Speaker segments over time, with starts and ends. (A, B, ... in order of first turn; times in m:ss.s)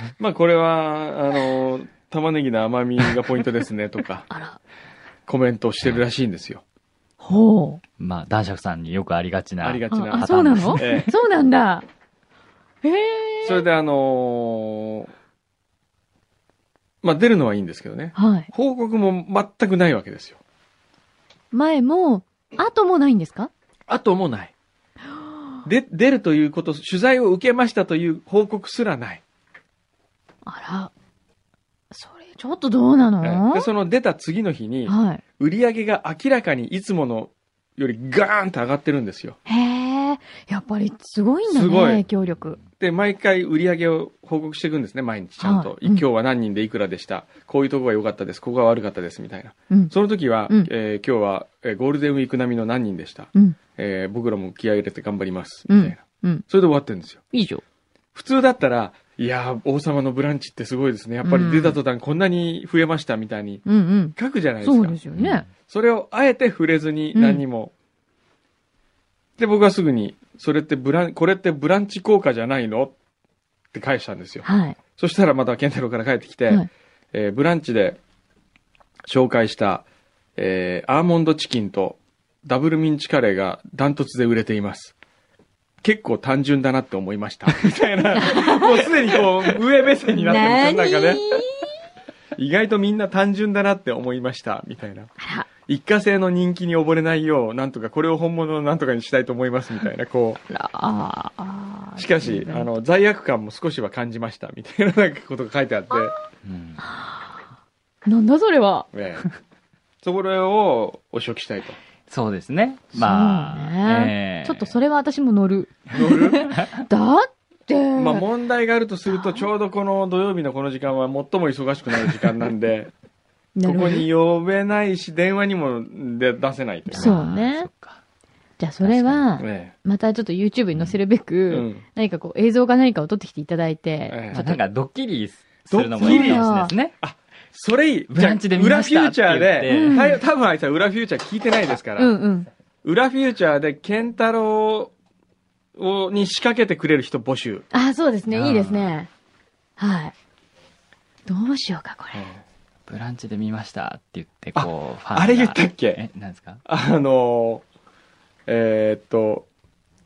0:00.2-0:04.3 A
0:04.3-0:04.6 B
0:05.3-0:06.6 A
0:07.2-0:07.8 B
0:08.0-0:11.0 C
0:09.6-0:11.1 A
0:09.9-0:11.9 B
0:12.8-0:13.7 B
0:13.4-0:15.1 A
0:17.0-0:20.4 A
0:18.2-0:18.5 B
0:21.5-0:23.5 B
0:23.9-0:24.5 A
0:25.6-0:29.2 A
0:30.4-0:30.9 B
0:31.9-0:33.7 B
0:33.2-0:39.4 A
0:34.9-0:35.2 B
0:39.5-0:42.6 B
0:41.5-0:42.0 A
0:42.8-0:57.2 A
0:45.4-0:46.1 B
0:55.7-0:56.4 B
0:57.3-0:57.6 B
0:58.1-1:05.0 A
1:01.2-1:01.8 B
1:03.6-1:05.5 B
1:05.2-1:05.5 C
1:05.7-1:07.7 A
1:07.1-1:07.4 B
1:09.4-1:13.0 A
1:13.7-1:14.5 A
1:14.4-1:14.8 B
1:15.0-1:18.0 A
1:19.1-1:19.8 A
1:20.4-1:25.0 A
1:25.8-1:31.3 A
1:28.2-1:28.9 B
1:30.2-1:31.7 B
1:32.4-1:35.1 A
1:35.2-1:35.5 B
1:35.7-1:40.4 A
1:40.5-1:42.7 B
1:42.0-1:46.1 A
1:46.4-1:46.8 C
1:46.8-1:47.4 B
1:48.0-1:48.9 B
1:48.9-1:49.3 A
1:50.0-1:51.8 A
1:52.1-1:54.8 C
1:53.0-1:58.3 B
1:55.9-1:56.5 A
1:58.0-2:02.9 A
1:59.1-1:59.5 B
2:03.6-2:04.1 B
2:03.6-2:07.2 A
2:06.9-2:08.0 C
2:07.0-2:07.7 B
2:08.6-2:14.6 B
2:08.8-2:09.2 C
2:09.4-2:09.7 A
2:11.5-2:11.8 A
2:14.1-2:14.5 A
2:14.3-2:17.0 C
2:15.7-2:16.5 A
2:16.0-2:16.7 B
2:17.0-2:22.2 A
2:18.1-2:20.1 C
2:19.7-2:20.2 B
2:22.0-2:22.5 B
2:22.8-2:24.9 A
2:25.8-2:27.6 A
2:27.7-2:29.1 B
2:28.3-2:28.9 C
2:29.8-2:30.2 B
2:31.3-2:32.3 B
2:32.1-2:32.4 A
2:32.9-2:36.6 C
2:34.6-2:36.0 A
2:36.6-2:37.6 A
2:38.5-2:39.5 A